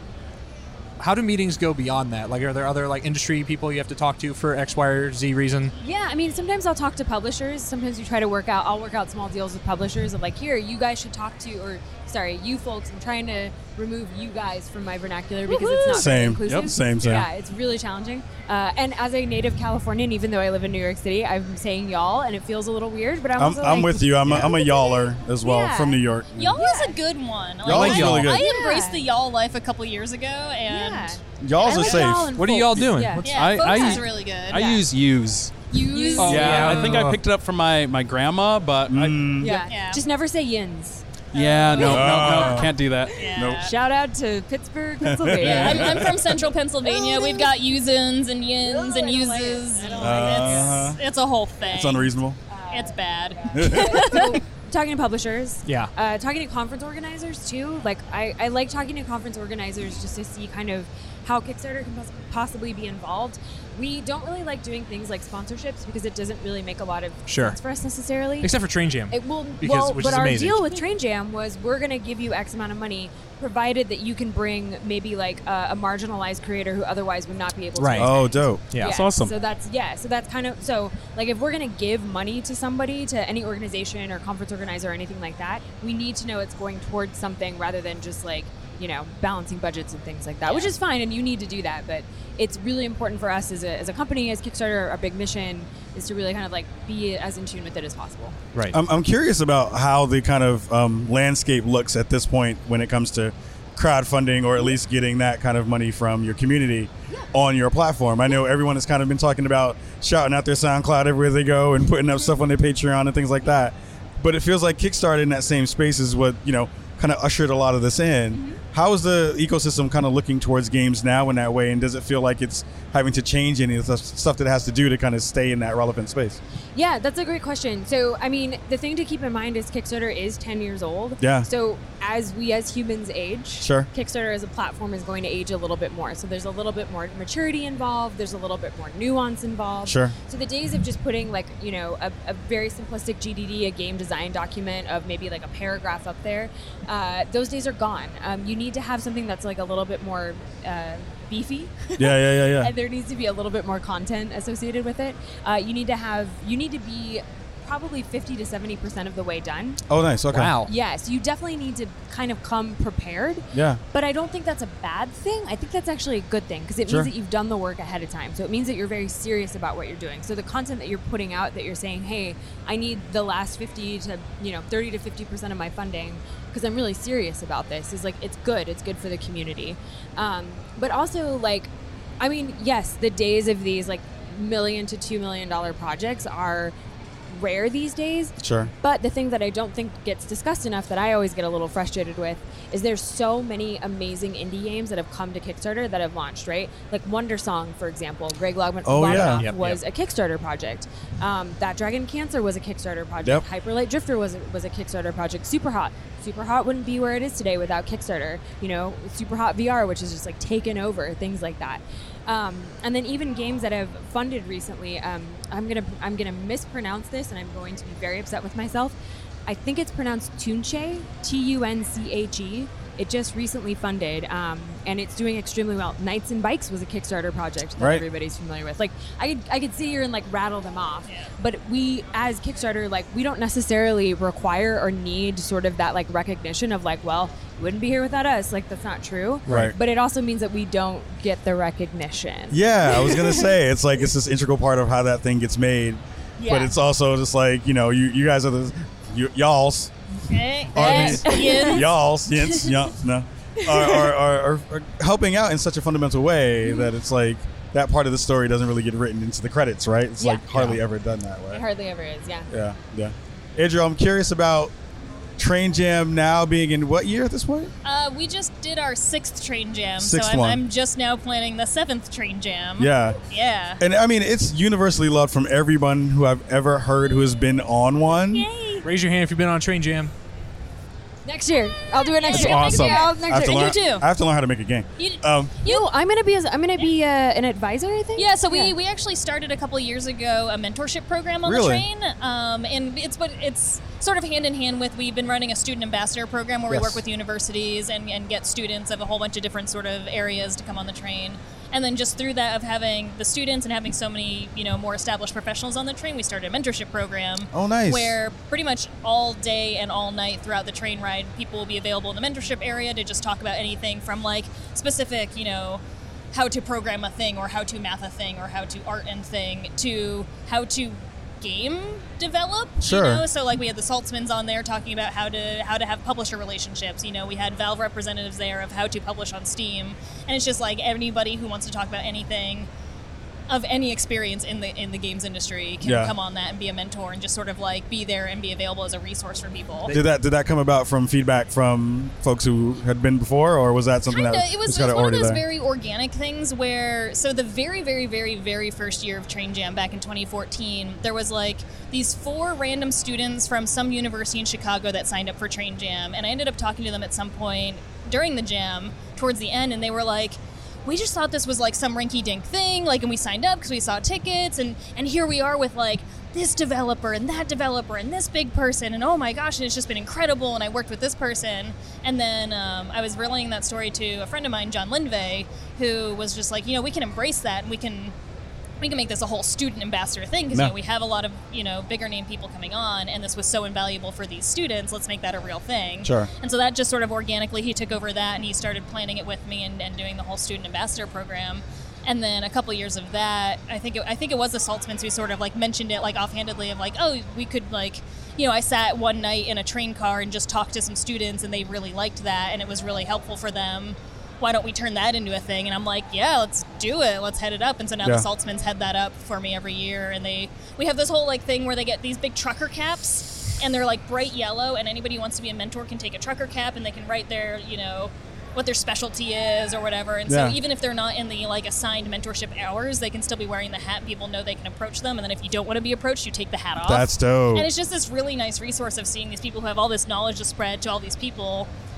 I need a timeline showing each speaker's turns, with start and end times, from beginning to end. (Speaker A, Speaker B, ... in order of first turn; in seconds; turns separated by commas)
Speaker A: 1.0-5.7, Speaker B: 5.8-26.0, Speaker C: 15.4-16.3, Speaker D: 15.9-17.3, Speaker D: 23.4-26.6, Speaker A: 24.3-24.5, Speaker C: 26.4-31.2, Speaker B: 26.6-27.0, Speaker D: 27.6-28.5, Speaker A: 27.7-28.3, Speaker B: 27.7-29.0, Speaker B: 30.7-34.0, Speaker D: 31.4-32.4, Speaker C: 31.8-32.1, Speaker A: 32.4-33.4, Speaker C: 33.2-34.8, Speaker E: 33.3-35.5, Speaker C: 35.7-36.9, Speaker B: 35.7-37.1, Speaker A: 36.2-37.2, Speaker E: 36.2-39.5, Speaker D: 38.9-39.6, Speaker B: 39.4-41.0, Speaker C: 39.4-40.0, Speaker E: 41.3-43.2, Speaker C: 41.3-43.7, Speaker D: 41.8-42.8, Speaker B: 41.9-46.3, Speaker D: 43.4-43.7, Speaker D: 45.0-46.3, Speaker C: 45.4-52.1, Speaker B: 46.8-47.5, Speaker B: 48.6-51.0, Speaker D: 50.0-51.0, Speaker D: 51.6-52.4, Speaker B: 52.5-68.5, Speaker C: 52.7-54.4, Speaker D: 53.5-54.1, Speaker A: 55.7-55.9, Speaker A: 67.3-67.6, Speaker A: 68.4-70.6, Speaker B: 69.1-98.4, Speaker A: 77.8-78.2, Speaker D: 78.0-78.6, Speaker A: 78.7-79.0, Speaker E: 78.8-79.3, Speaker C: 90.4-90.7, Speaker A: 98.5-98.8, Speaker D: 98.7-126.4, Speaker B: 126.8-159.8, Speaker D: 131.2-131.5, Speaker D: 133.6-133.9, Speaker D: 139.8-140.1, Speaker D: 152.0-152.7, Speaker D: 159.9-160.6, Speaker A: 160.3-160.7, Speaker B: 160.7-186.8, Speaker D: 163.5-163.8, Speaker B: 187.3-218.9, Speaker D: 188.4-188.7, Speaker D: 198.8-199.5, Speaker A: 199.1-199.8, Speaker B: 219.5-243.4, Speaker D: 227.8-228.0, Speaker C: 231.1-231.3, Speaker A: 239.5-239.7, Speaker D: 239.5-239.8, Speaker D: 242.5-249.9, Speaker B: 246.4-246.7, Speaker C: 250.3-251.9, Speaker D: 250.7-261.6, Speaker B: 250.8-251.8, Speaker B: 253.7-254.1, Speaker B: 260.2-260.4, Speaker B: 261.5-262.5, Speaker D: 262.5-264.7, Speaker D: 265.4-267.7, Speaker C: 267.8-273.8, Speaker D: 270.0-270.6, Speaker D: 272.8-273.2, Speaker D: 273.8-278.5, Speaker C: 278.3-278.9, Speaker A: 278.8-280.1, Speaker B: 281.2-283.8, Speaker C: 282.0-284.1, Speaker D: 282.3-285.6, Speaker C: 285.0-285.9, Speaker B: 285.6-288.7, Speaker C: 288.2-315.8, Speaker D: 291.4-291.9, Speaker D: 296.7-297.0, Speaker D: 307.5-308.2, Speaker C: 316.3-332.7, Speaker D: 322.8-323.3, Speaker C: 333.5-339.9, Speaker D: 335.8-336.1, Speaker D: 339.9-345.4, Speaker C: 344.1-378.1, Speaker C: 378.8-431.7, Speaker D: 386.0-386.3, Speaker D: 420.3-420.6, Speaker D: 426.8-427.7